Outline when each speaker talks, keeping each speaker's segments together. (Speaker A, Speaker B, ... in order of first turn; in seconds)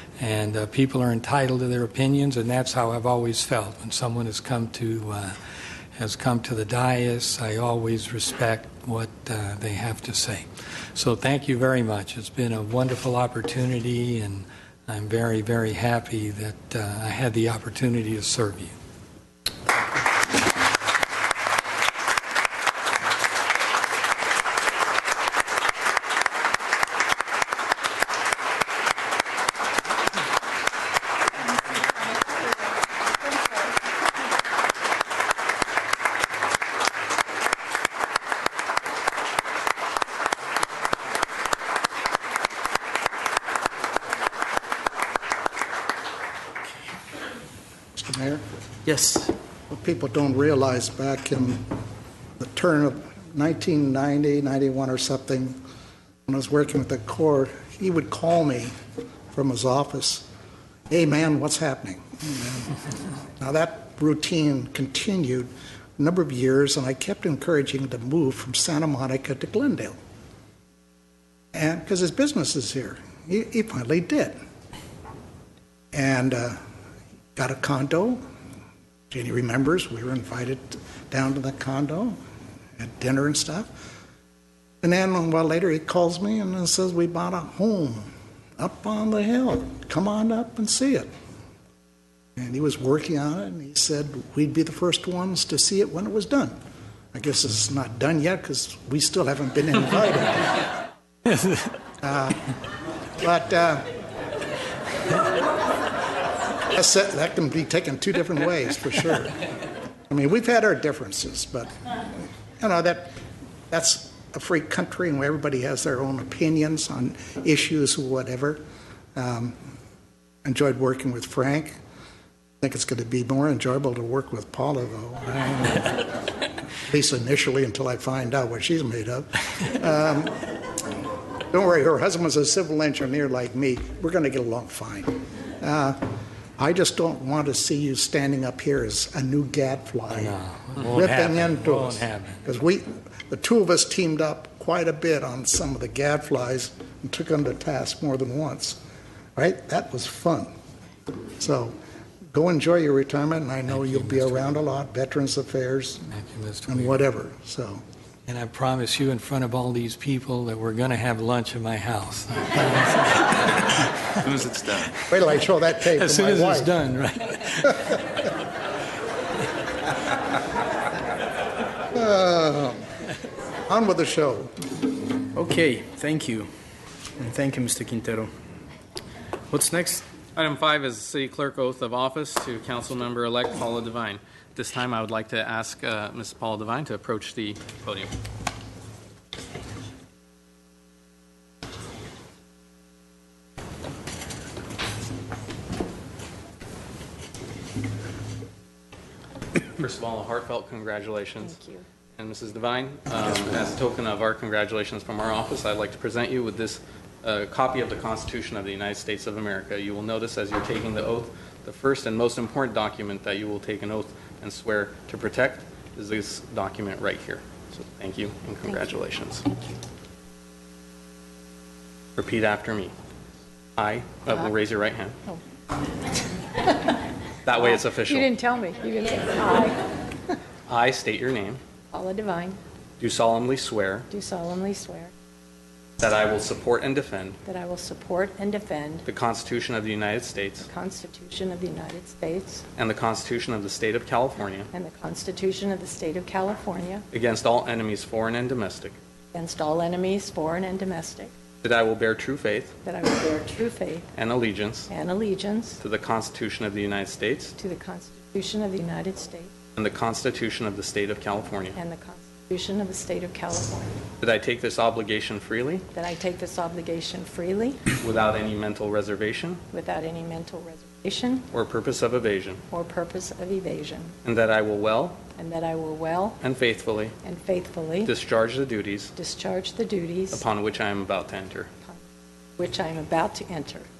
Speaker A: 0.2-5.3, 6.0-18.7, 140.1-142.4, 153.7-154.6, 156.1-157.0, 158.3-163.9, 165.9-168.0
Speaker B: 48.0-48.4, 49.7-51.7, 52.4-55.6, 56.2-58.7, 59.3-60.2, 60.9-62.8, 63.4-70.0, 71.5-74.4, 75.9-76.6, 77.3-78.2, 79.1-82.2, 82.8-83.8, 84.8-91.1, 92.4-96.5, 97.1-100.6, 102.0-102.5, 103.2-103.9, 106.6-109.4, 110.1-111.8, 112.6-113.2, 113.7-118.6, 119.1-119.6, 120.4-121.8, 122.6-126.0, 126.9-130.4, 131.5-136.0, 136.6-148.8, 149.3-150.5, 151.4-151.8, 152.3-156.1, 156.7-157.8, 165.1-166.7, 171.9-172.8, 173.7-174.6
Speaker C: 48.9-49.3, 175.3-176.5, 177.2-178.3, 179.5-180.1
Speaker D: 180.3-188.1, 199.8-201.6, 202.2-219.7, 222.2-222.9, 223.8-225.2, 227.4-228.3, 230.7-231.6, 233.0-234.1, 236.0-237.4, 239.1-240.7, 242.8-244.7, 247.1-248.9, 251.6-252.8, 254.1-254.9, 255.8-257.6, 259.8-261.8, 264.2-265.9, 267.9-269.6, 271.5-272.6, 274.2-275.2, 276.4-277.1, 278.0-279.1, 280.3-281.7
Speaker E: 201.4-201.8, 227.5-229.9, 231.9-232.6, 234.1-235.1, 237.4-239.1, 240.6-242.6, 244.7-247.1, 249.3-251.3, 252.8-254.1, 254.9-255.8, 257.6-259.5, 261.7-264.0, 265.9-267.9, 269.7-271.5, 272.7-274.1, 275.4-276.4, 277.2-278.1, 279.1-280.4, 282.6-283.9